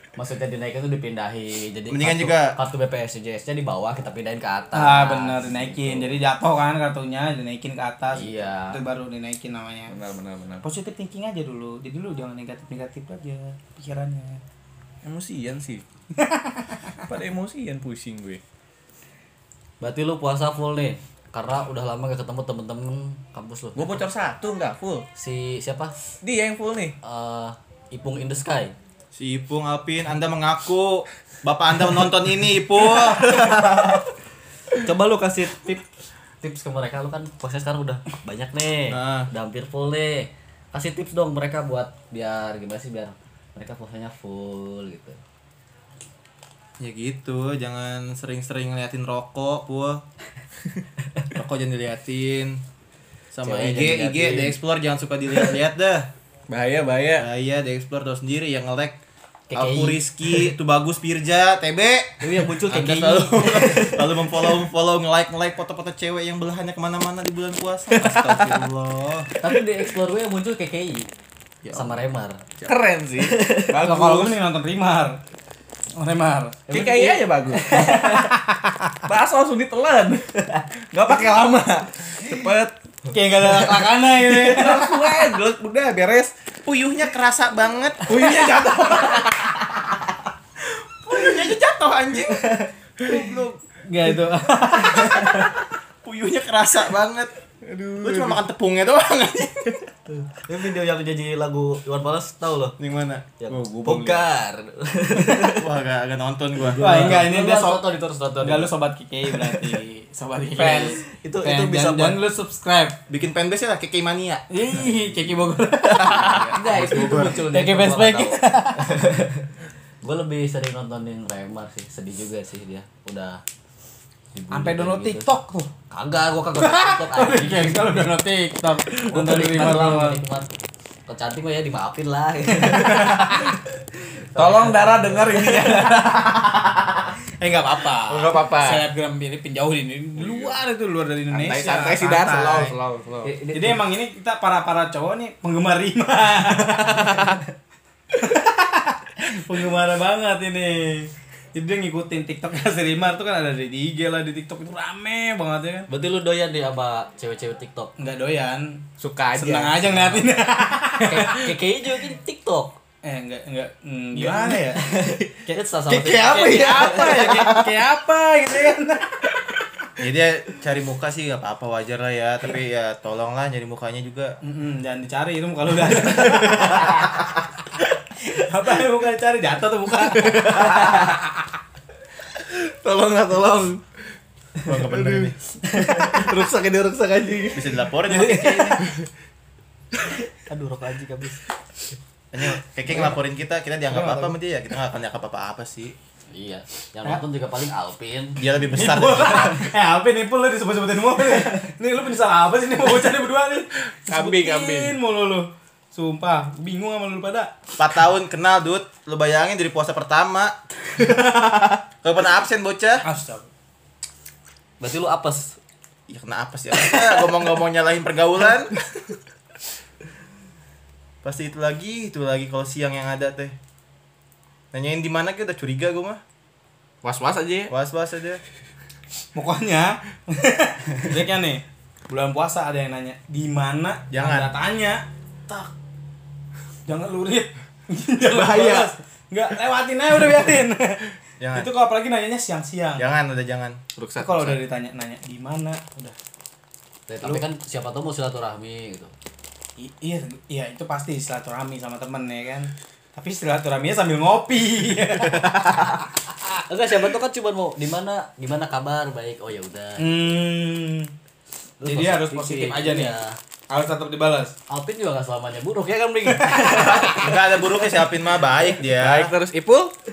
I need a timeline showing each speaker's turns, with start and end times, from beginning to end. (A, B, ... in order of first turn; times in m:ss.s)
0:00.2-0:06.2 A
0:01.9-0:02.6 B
0:04.7-0:09.9 C
0:08.1-0:08.8 A
0:09.9-0:10.7 D
0:10.6-0:14.4 C
0:15.0-0:15.8 D
0:16.2-0:16.9 C
0:17.1-0:18.4 D
0:19.8-0:24.0 A
0:23.8-0:25.1 D
0:25.2-0:26.0 A
0:26.2-0:27.0 D
0:27.0-0:28.8 A
0:29.2-0:33.7 B
0:34.8-0:35.8 A
0:36.4-0:45.2 A
0:38.9-0:39.3 B
0:46.8-0:50.0 B
0:51.4-0:52.6 B
0:53.3-0:56.1 B
0:53.4-0:54.6 A
0:56.5-0:57.3 D
0:57.2-0:59.0 B
0:59.5-1:00.5 A
0:59.6-1:09.3 B
1:02.2-1:04.6 A
1:08.0-1:08.7 D
1:09.4-1:11.1 A
1:11.6-1:12.0 D
1:11.7-1:12.4 A
1:12.6-1:14.4 D
1:13.2-1:13.8 A
1:13.8-1:15.2 C
1:16.0-1:16.6 C
1:16.7-1:18.4 A
1:16.7-1:18.0 D
1:17.8-1:18.7 C
1:19.0-1:20.4 D
1:20.4-1:20.7 A
1:20.9-1:22.8 D
1:23.1-1:25.1 C
1:23.5-1:26.3 D
1:26.7-1:28.3 B
1:28.1-1:29.7 D
1:31.1-1:33.6 B
1:33.8-1:35.5 C
1:36.0-1:37.3 B
1:37.6-1:38.4 D
1:38.0-1:39.9 B
1:40.3-1:42.8 A
1:42.8-1:43.3 B
1:43.4-1:45.7 A
1:43.5-1:44.3 D
1:45.5-1:47.3 B
1:46.6-1:48.7 A
1:46.8-1:47.9 C
1:48.4-1:53.0 C
1:49.3-1:49.7 A
1:50.6-1:52.2 A
1:53.1-1:54.9 B
1:54.5-1:59.1 C
1:55.8-1:57.4 B
1:55.9-1:59.5 A
2:00.0-2:03.4 A
2:04.3-2:05.3 A
2:04.5-2:05.7 C
2:05.9-2:08.1 A
2:06.6-2:10.2 C
2:09.0-2:10.5 A
2:11.1-2:13.6 A
2:12.6-2:13.5 C
2:14.2-2:15.9 A
2:14.4-2:16.1 D
2:15.3-2:16.6 C
2:17.4-2:22.8 C
2:18.1-2:18.9 D
2:20.2-2:20.6 D
2:21.3-2:23.3 D
2:23.2-2:23.8 A
2:23.5-2:27.4 C
2:28.2-2:35.9 C
2:35.9-2:37.9 A
2:38.0-2:38.8 C
2:39.0-2:40.3 D
2:39.4-2:41.5 C
2:41.0-2:42.8 A
2:43.0-2:44.8 C
2:44.3-2:47.4 A
2:45.4-2:49.3 C
2:45.9-2:47.6 D
2:50.0-2:54.4 B
2:54.4-2:57.3 C
2:58.2-3:01.2 C
3:00.3-3:01.0 D
3:00.6-3:01.2 A
3:02.4-3:03.8 D
3:04.6-3:05.4 B
3:04.8-3:07.9 D
3:05.7-3:06.3 A
3:07.5-3:08.8 B
3:08.1-3:08.9 A
3:10.4-3:11.4 A
3:12.3-3:16.0 B
3:13.9-3:14.3 C
3:16.3-3:18.4 A
3:18.4-3:19.7 B
3:18.7-3:27.5 C
3:24.1-3:25.0 D
3:27.8-3:33.0 B
3:33.0-3:33.5 C
3:34.8-3:35.6 A
3:36.1-3:39.2 B
3:36.9-3:37.2 A
3:41.2-3:43.6 B
3:44.7-3:46.2 B
3:47.0-3:47.7 D
3:47.7-3:48.4 B
3:49.4-3:55.7 C
3:54.1-3:54.5 B
3:56.9-4:03.0 C
3:58.3-3:59.0 B
4:01.4-4:01.7 B
4:03.0-4:03.8 B
4:04.0-4:04.6 D
4:04.2-4:06.2 C
4:07.1-4:09.1 A
4:09.8-4:16.0 C
4:16.7-4:20.3 A
4:20.0-4:21.1 C
4:21.8-4:23.4 A
4:21.8-4:23.2 C
4:23.7-4:24.6 C
4:24.7-4:27.7 A
4:26.4-4:27.0 C
4:27.0-4:29.3 B
4:28.8-4:29.9 D